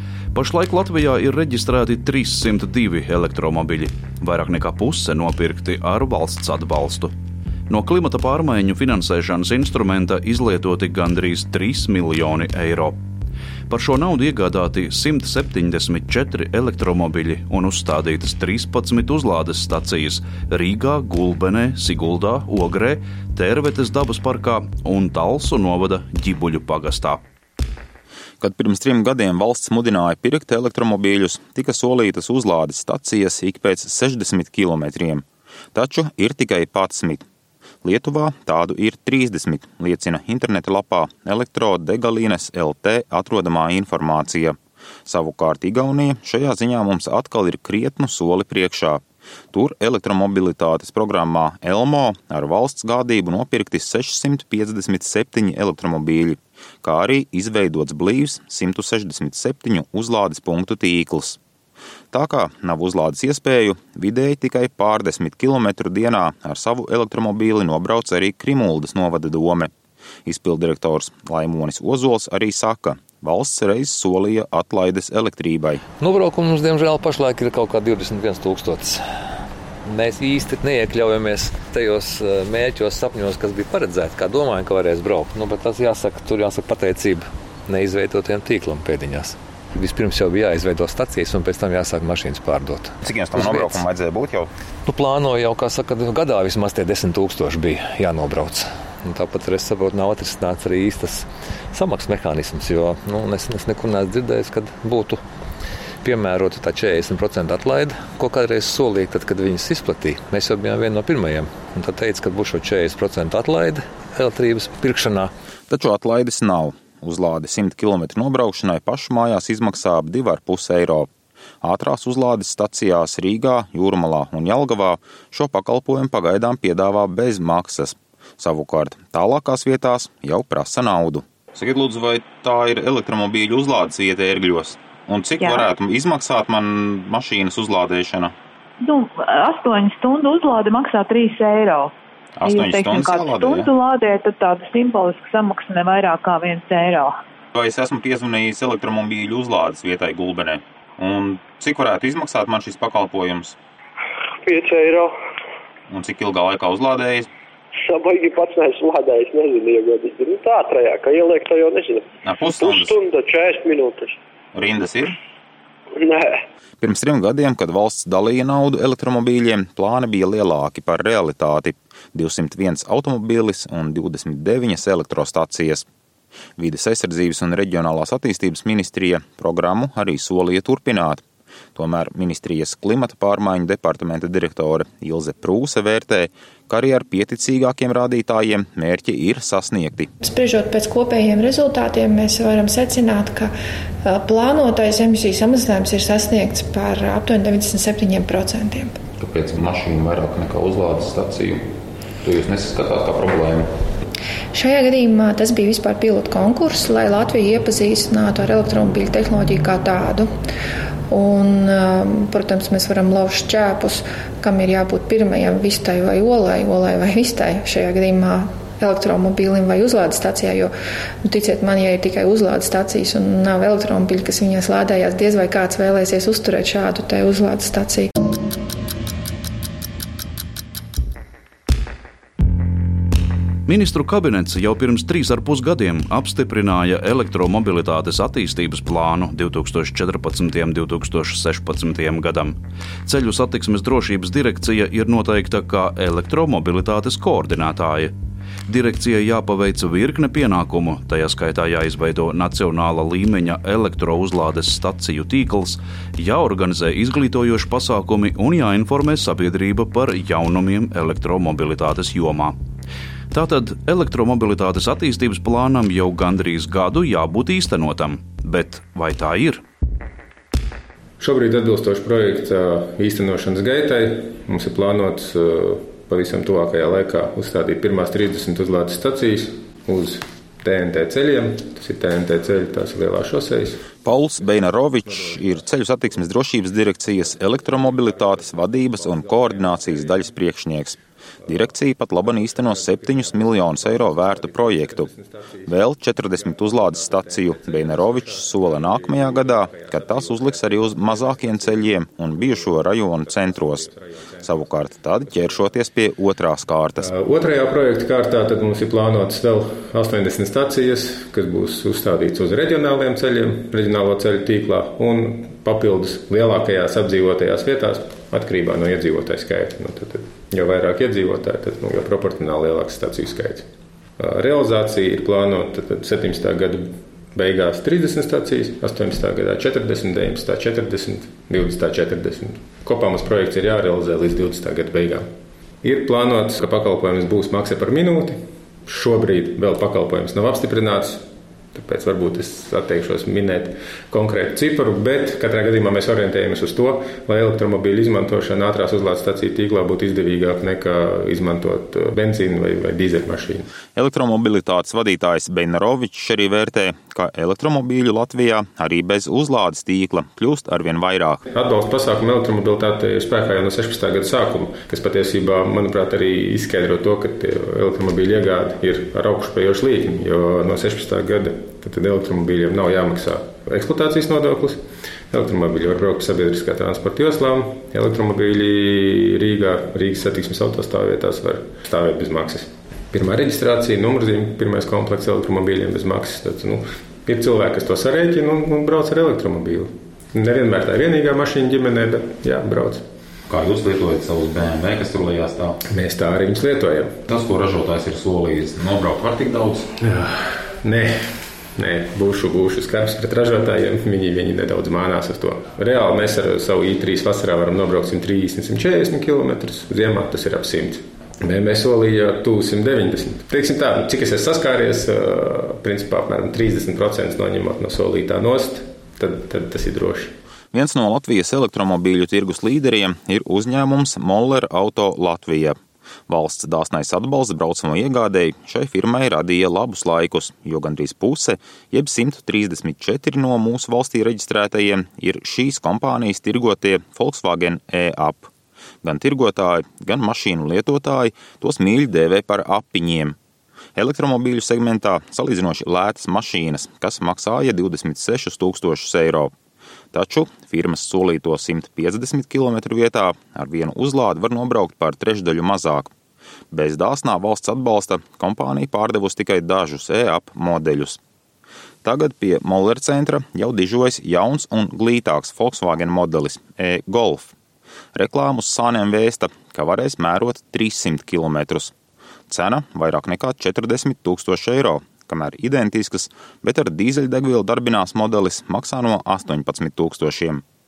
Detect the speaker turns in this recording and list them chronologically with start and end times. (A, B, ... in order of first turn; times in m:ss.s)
0:00.3-0:07.1 A
0:07.7-0:13.0 A
0:13.7-0:27.2 A
0:28.4-0:37.2 B
0:37.8-0:49.0 B
0:49.5-1:01.4 B
1:02.1-1:09.7 B
1:10.2-1:15.8 B
1:16.0-1:19.0 C
1:19.8-1:33.8 C
1:33.0-1:34.5 B
1:34.8-1:45.2 C
1:46.0-1:55.3 C
1:55.7-2:01.1 B
2:01.6-2:18.3 B
2:15.4-2:15.7 D
2:18.8-2:21.9 D
2:22.4-2:23.7 B
2:22.4-2:27.1 D
2:27.5-2:33.6 B
2:34.4-2:35.1 E
2:35.9-2:37.3 B
2:37.8-2:42.0 E
2:42.2-2:43.0 B
2:42.6-2:44.2 E
2:44.5-2:45.2 B
2:46.0-2:46.4 E
2:46.8-2:55.8 B
2:56.6-3:01.2 B
3:01.7-3:10.1 B
3:10.2-3:13.5 F
3:14.0-3:19.0 F
3:19.2-3:21.6 B
3:22.2-3:23.7 B
3:24.5-3:30.3 F
3:31.1-3:40.7 F
3:41.2-3:48.1 F
3:53.7-4:02.6 A
4:03.1-4:08.1 A
4:08.7-4:22.5 A
4:23.3-4:29.6 A
4:31.2-4:43.9 G
4:44.0-4:55.1 B
4:45.0-4:46.2 G
4:47.2-4:50.2 G
4:52.2-5:05.8 G
4:55.7-5:03.9 B
5:04.4-5:07.1 B
5:07.0-5:23.6 G
5:24.2-5:35.2 G
5:35.8-5:41.2 G
5:41.7-5:53.7 G
5:53.9-6:01.4 B
6:01.5-6:14.8 G
6:15.3-6:33.0 G
6:33.5-6:35.8 B
6:35.9-6:37.2 G
6:37.3-6:39.9 B
6:40.8-6:41.2 G
6:41.8-7:00.3 G
7:00.7-7:05.8 B
7:06.3-7:18.5 B
7:19.0-7:23.4 B
7:24.0-7:29.5 B
7:30.1-7:36.1 B
7:36.7-7:41.2 B
7:42.0-7:47.5 B
7:48.1-7:51.9 B
7:52.5-8:00.6 B